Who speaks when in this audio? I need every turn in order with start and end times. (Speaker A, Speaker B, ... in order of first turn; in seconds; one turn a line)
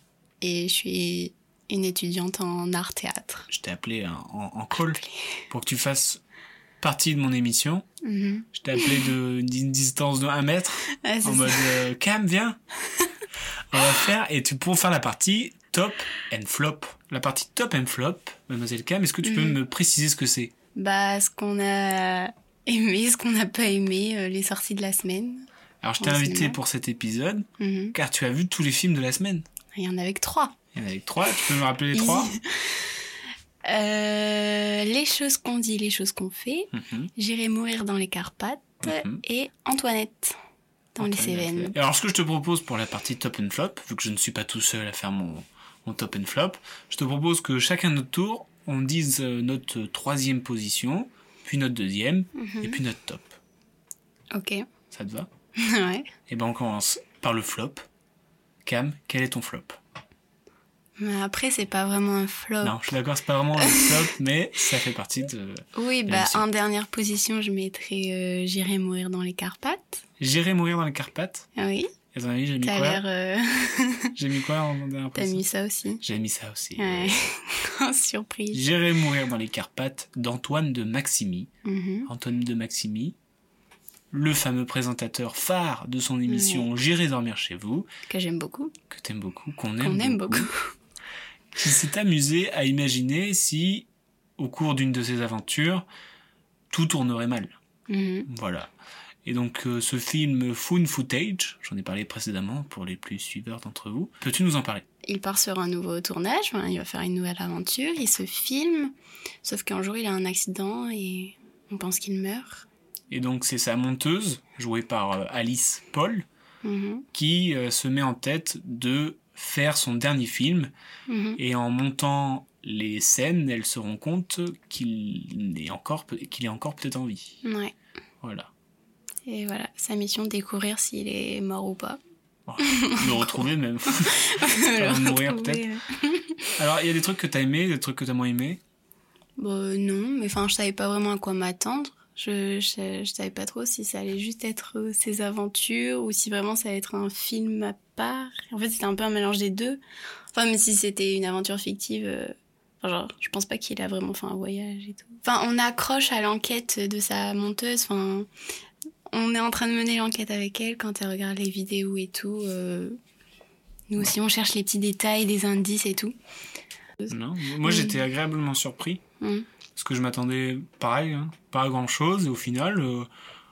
Speaker A: 0.4-3.5
Speaker B: 3.5-6.2
Speaker A: 4.8-5.4
Speaker B: 6.8-7.9
Speaker A: 8.0-9.0
Speaker B: 8.5-12.6
Speaker A: 11.0-11.8
Speaker B: 13.7-20.5
Speaker A: 19.2-19.6
Speaker A: 20.8-25.5
Speaker B: 25.8-29.5
Speaker A: 26.0-26.6
Speaker A: 27.6-28.0
Speaker A: 29.8-30.5
Speaker B: 30.7-32.3
Speaker A: 31.9-32.9
Speaker A: 33.6-40.4
Speaker B: 36.7-37.1
Speaker B: 38.8-39.2
Speaker A: 41.0-41.8
Speaker B: 41.0-53.4
Speaker A: 52.4-52.8
Speaker A: 54.3-54.6
Speaker B: 54.9-55.3
Speaker A: 55.6-56.1
Speaker B: 56.3-57.9
Speaker B: 58.6-59.8
Speaker A: 61.0-62.8
Speaker B: 62.6-66.5
Speaker A: 63.6-64.1
Speaker A: 65.8-70.0
Speaker B: 70.2-71.5
Speaker A: 71.6-71.9
Speaker B: 72.1-73.0
Speaker A: 72.6-74.1
Speaker B: 74.2-75.4
Speaker A: 75.2-76.0
Speaker B: 76.0-77.2
Speaker A: 76.8-78.6
Speaker B: 78.5-81.5
Speaker A: 81.7-82.1
Speaker B: 82.1-83.2
Speaker B: 84.1-87.9
Speaker A: 86.3-86.7
Speaker A: 88.1-88.7
Speaker B: 88.9-90.5
Speaker A: 89.8-90.7
Speaker B: 91.5-93.9
Speaker B: 94.4-95.8
Speaker B: 96.7-97.6
Speaker A: 97.9-98.3
Speaker B: 98.3-98.7
Speaker B: 99.2-104.8
Speaker A: 105.0-112.7
Speaker B: 113.1-116.3
Speaker A: 116.6-117.1
Speaker B: 117.1-120.7
Speaker A: 121.1-121.4
Speaker B: 121.4-127.4
Speaker A: 127.4-127.7
Speaker B: 128.2-128.5
Speaker A: 129.3-132.0
Speaker B: 132.5-135.6
Speaker A: 132.6-133.5
Speaker A: 134.0-136.5
Speaker B: 136.6-138.6
Speaker A: 139.4-149.8
Speaker A: 150.3-158.3
Speaker A: 159.1-163.0
Speaker A: 163.9-166.2
Speaker A: 167.0-168.0
Speaker B: 167.1-169.0
Speaker A: 169.2-169.5
Speaker B: 169.8-173.1